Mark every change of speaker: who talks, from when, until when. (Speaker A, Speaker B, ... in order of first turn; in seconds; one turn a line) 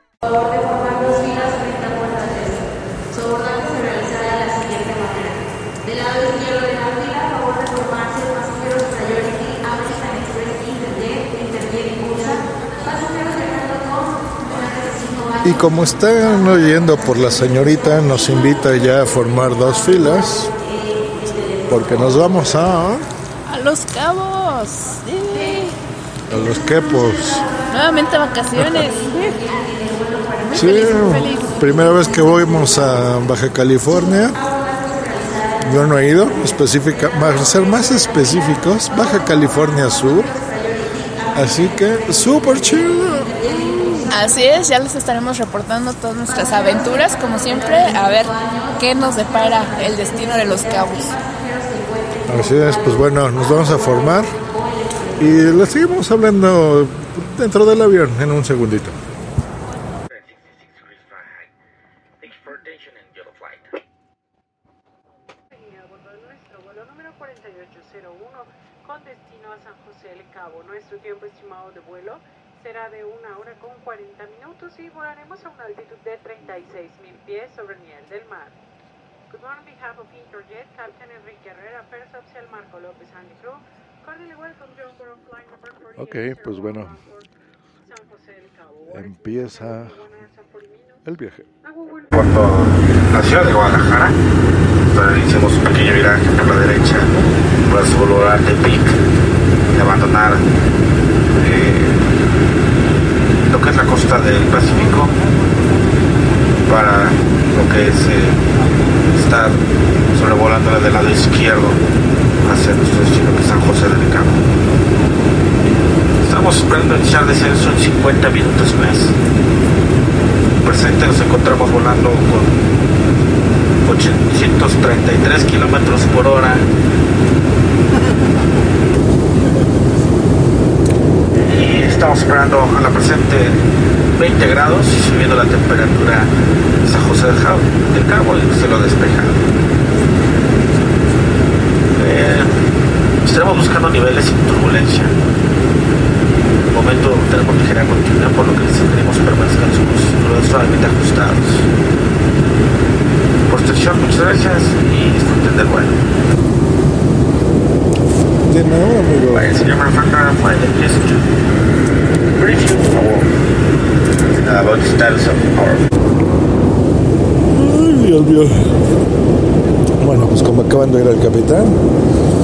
Speaker A: 3.4-5.0
Speaker A: 6.2-9.3
Speaker A: 9.9-10.2
Speaker A: 10.9-12.2
Speaker B: 15.4-20.5
Speaker B: 21.7-23.1
Speaker C: 23.5-25.8
Speaker B: 26.3-27.5
Speaker C: 27.7-29.4
Speaker C: 30.1-32.0
Speaker B: 30.5-34.4
Speaker B: 35.6-40.4
Speaker B: 41.3-43.4
Speaker C: 44.1-51.2
Speaker B: 52.2-54.4
Speaker B: 55.2-59.0
Speaker D: 60.1-61.5
Speaker D: 62.2-63.8
Speaker E: 65.6-78.5
Speaker E: 79.3-87.2
Speaker B: 86.0-87.0
Speaker E: 87.9-91.0
Speaker B: 88.9-90.1
Speaker B: 91.0-91.5
Speaker E: 91.6-92.1
Speaker D: 92.1-94.1
Speaker D: 94.9-97.1
Speaker D: 97.7-98.9
Speaker D: 99.7-100.4
Speaker D: 101.4-102.0
Speaker D: 103.5-105.1
Speaker D: 106.7-108.4
Speaker D: 109.1-109.6
Speaker D: 110.1-111.8
Speaker D: 112.4-114.4
Speaker D: 116.2-119.1
Speaker D: 120.6-122.5
Speaker D: 123.8-126.6
Speaker D: 131.5-133.6
Speaker D: 134.2-136.3
Speaker D: 136.8-139.4
Speaker D: 141.9-142.5
Speaker D: 143.2-145.1
Speaker D: 146.7-151.7
Speaker D: 153.5-156.0
Speaker B: 158.4-159.5
Speaker D: 159.3-161.2
Speaker D: 162.3-163.3
Speaker D: 164.3-165.9
Speaker B: 167.5-168.8
Speaker B: 170.0-171.8